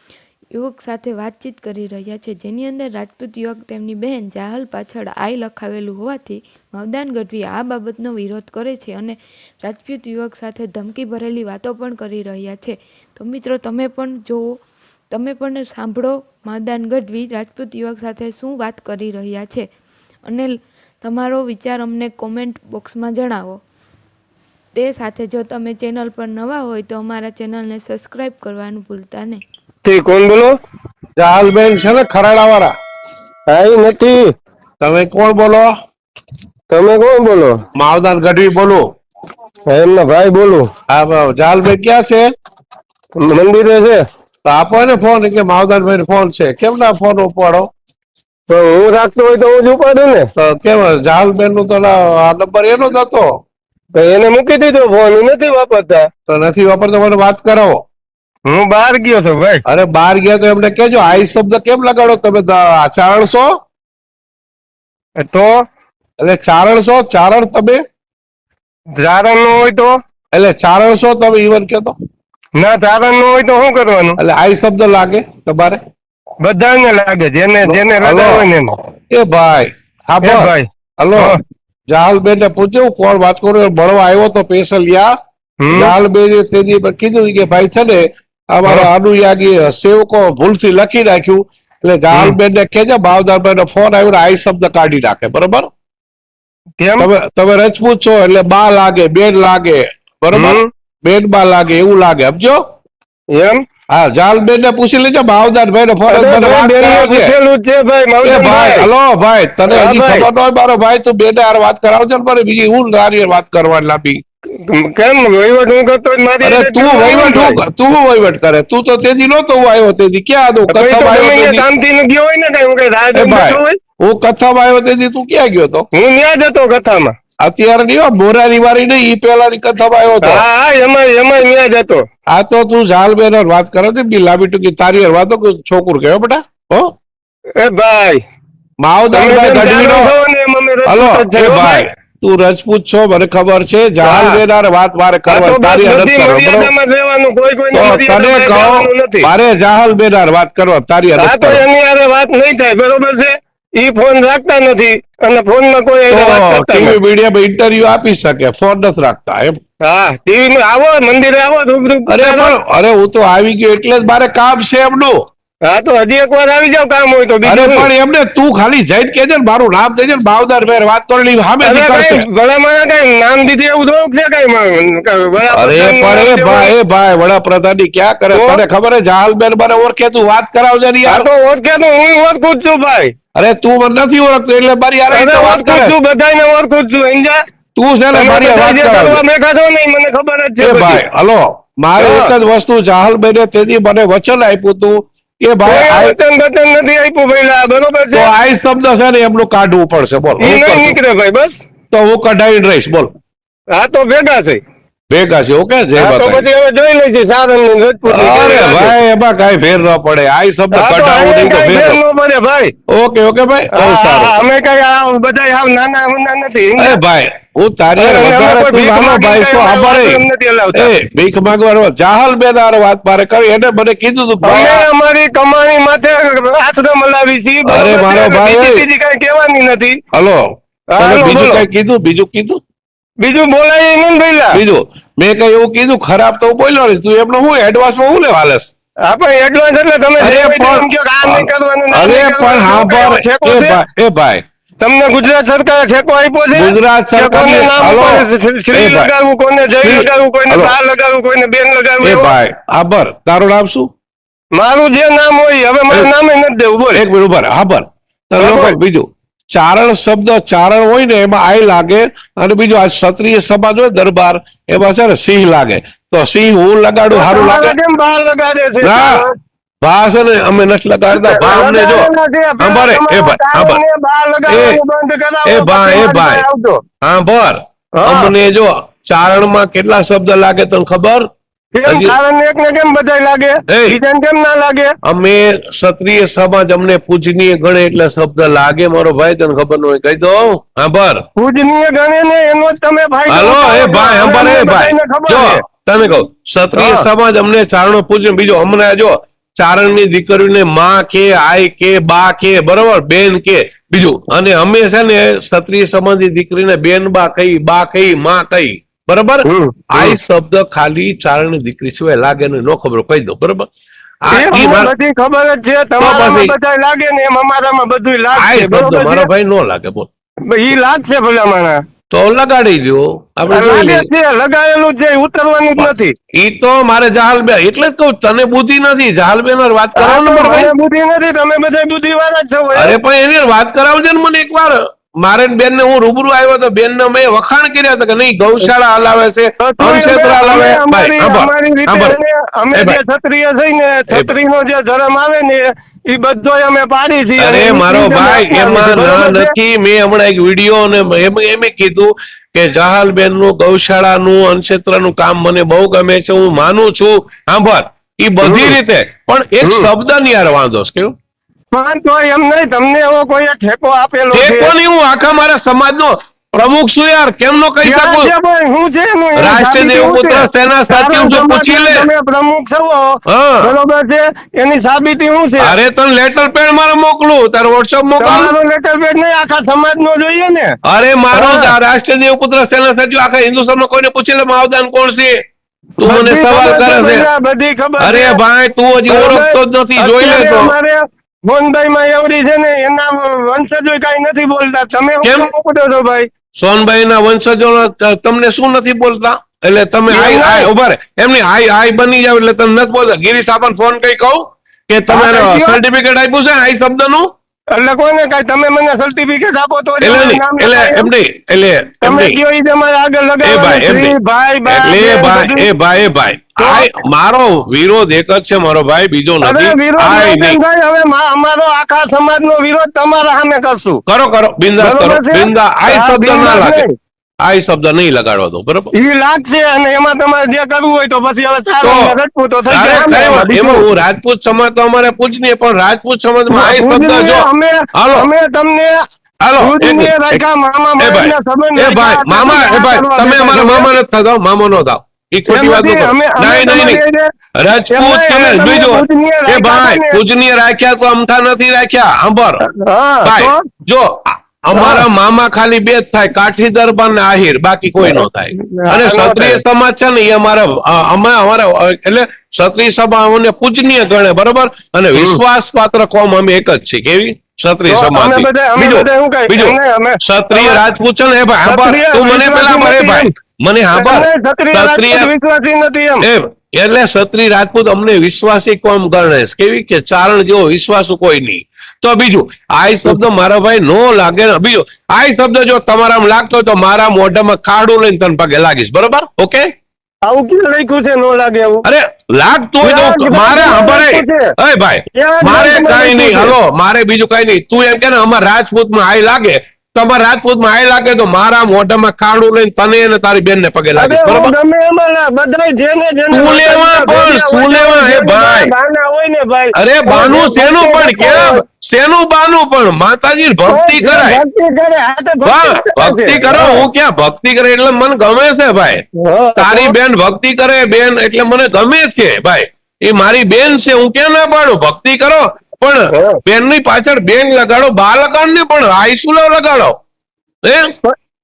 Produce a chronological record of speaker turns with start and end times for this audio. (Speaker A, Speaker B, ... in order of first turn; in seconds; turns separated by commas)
Speaker A: 0.5-14.6, Speaker A: 15.1-19.7, Speaker A: 20.2-23.6, Speaker A: 24.7-29.4, Speaker B: 29.8-30.5, Speaker C: 31.2-32.7, Speaker B: 33.5-34.3, Speaker C: 34.8-35.7, Speaker B: 36.7-37.5, Speaker C: 37.7-38.9, Speaker B: 39.7-40.7, Speaker C: 40.9-42.2, Speaker B: 43.2-44.0, Speaker C: 44.5-47.7, Speaker B: 48.5-50.2, Speaker C: 50.4-53.3, Speaker B: 53.9-56.1, Speaker C: 56.3-57.8, Speaker B: 58.5-59.6, Speaker C: 59.6-63.5, Speaker B: 65.2-65.6, Speaker C: 66.2-67.8, Speaker B: 69.0-69.9, Speaker C: 70.3-71.9, Speaker B: 72.6-74.2, Speaker C: 74.2-75.8, Speaker B: 76.4-78.7, Speaker C: 77.6-78.5, Speaker C: 79.1-81.4, Speaker B: 80.2-81.4, Speaker C: 81.9-85.1, Speaker B: 85.6-85.9, Speaker C: 85.7-95.7, Speaker B: 88.6-88.9, Speaker B: 92.1-92.3, Speaker B: 96.8-97.1, Speaker C: 97.0-102.6, Speaker B: 100.3-100.7, Speaker B: 103.3-103.6, Speaker C: 103.9-107.3, Speaker B: 106.1-108.9, Speaker C: 108.2-114.2, Speaker B: 109.7-110.3, Speaker B: 114.7-117.6, Speaker C: 116.4-121.6, Speaker B: 120.7-123.8, Speaker C: 123.1-125.9, Speaker B: 125.9-127.1, Speaker C: 127.4-130.4, Speaker B: 130.2-132.0, Speaker C: 132.3-136.9, Speaker B: 137.6-138.2, Speaker C: 138.8-140.1, Speaker B: 139.1-141.9, Speaker C: 140.8-146.7, Speaker B: 144.0-144.4, Speaker B: 145.3-149.3, Speaker C: 147.7-151.6, Speaker B: 151.2-157.0, Speaker C: 156.1-159.6, Speaker B: 159.8-162.5, Speaker C: 162.1-165.2, Speaker B: 165.7-167.9, Speaker C: 167.4-172.2, Speaker B: 171.6-176.7, Speaker C: 175.5-181.2, Speaker B: 178.3-178.6, Speaker B: 181.1-183.1, Speaker C: 183.3-185.9, Speaker B: 185.1-187.4, Speaker C: 187.8-189.2, Speaker B: 188.1-191.0, Speaker C: 190.6-196.1, Speaker B: 192.0-192.3, Speaker B: 195.6-198.3, Speaker C: 198.1-200.9, Speaker B: 200.4-201.6, Speaker C: 201.9-203.1, Speaker B: 203.7-204.6, Speaker C: 205.1-206.4, Speaker B: 206.0-208.9, Speaker C: 208.1-212.0, Speaker B: 210.7-212.7, Speaker C: 212.9-214.3, Speaker B: 213.7-217.0, Speaker C: 216.8-220.2, Speaker B: 218.0-220.9, Speaker C: 220.7-224.8, Speaker B: 224.4-230.0, Speaker C: 227.7-228.8, Speaker C: 230.1-230.4, Speaker B: 230.9-231.6, Speaker C: 231.0-232.6, Speaker B: 233.2-234.6, Speaker C: 234.5-238.7, Speaker B: 239.1-243.8, Speaker C: 240.2-244.4, Speaker B: 244.8-252.3, Speaker C: 246.5-249.1, Speaker C: 249.8-250.7, Speaker C: 252.0-253.9, Speaker B: 254.5-257.0, Speaker C: 256.9-267.8, Speaker B: 258.4-258.8, Speaker B: 267.1-269.3, Speaker C: 268.8-269.2, Speaker C: 269.8-273.8, Speaker B: 271.1-276.8, Speaker C: 274.5-274.8, Speaker C: 275.4-276.4, Speaker C: 277.0-281.2, Speaker B: 277.9-278.3, Speaker B: 281.7-284.9, Speaker C: 281.9-282.1, Speaker C: 283.7-284.0, Speaker C: 285.0-291.2, Speaker B: 291.4-295.6, Speaker C: 293.3-313.6, Speaker B: 296.7-297.1, Speaker B: 309.4-310.1, Speaker C: 314.2-314.9, Speaker B: 314.3-319.3, Speaker C: 316.0-316.5, Speaker C: 318.3-320.1, Speaker B: 320.5-321.8, Speaker C: 322.1-324.1, Speaker B: 323.5-326.1, Speaker C: 326.4-330.7, Speaker B: 330.0-332.9, Speaker C: 332.7-342.2, Speaker B: 339.6-349.5, Speaker C: 342.7-343.0, Speaker C: 347.4-361.1, Speaker B: 358.4-358.8, Speaker B: 359.6-359.9, Speaker B: 361.7-364.7, Speaker C: 364.3-368.3, Speaker B: 367.8-375.7, Speaker C: 369.4-372.1, Speaker C: 373.3-373.7, Speaker C: 375.6-378.5, Speaker B: 378.2-380.8, Speaker C: 380.8-385.4, Speaker B: 381.3-381.7, Speaker C: 386.0-387.3, Speaker B: 386.0-388.4, Speaker C: 388.0-390.7, Speaker B: 389.1-396.3, Speaker C: 395.2-395.5, Speaker C: 396.6-407.3, Speaker B: 400.1-400.7, Speaker B: 405.1-405.8, Speaker B: 407.7-411.1, Speaker C: 410.0-412.4, Speaker B: 412.0-415.7, Speaker C: 413.4-414.1, Speaker C: 414.6-420.6, Speaker B: 416.6-416.9, Speaker B: 419.4-424.0, Speaker C: 424.1-426.8, Speaker B: 424.8-426.9, Speaker C: 427.4-428.9, Speaker B: 428.9-433.8, Speaker C: 431.8-432.1, Speaker C: 432.7-438.3, Speaker B: 436.5-438.9, Speaker C: 439.4-440.4, Speaker B: 439.6-443.9, Speaker C: 441.0-447.0, Speaker B: 445.5-447.3, Speaker C: 447.5-452.6, Speaker B: 447.9-450.2, Speaker B: 452.6-453.6, Speaker C: 453.2-475.3, Speaker B: 454.7-455.1, Speaker B: 458.0-459.6, Speaker B: 467.9-470.8, Speaker B: 471.6-473.3, Speaker B: 473.9-476.2, Speaker C: 476.2-489.7, Speaker B: 490.2-491.8, Speaker C: 491.8-504.5, Speaker B: 492.8-494.5, Speaker B: 495.1-496.6, Speaker B: 503.9-511.6, Speaker C: 506.3-508.7, Speaker C: 509.7-514.4, Speaker B: 513.6-516.9, Speaker C: 515.4-519.0, Speaker B: 519.2-519.9, Speaker C: 519.5-529.9, Speaker C: 530.6-530.9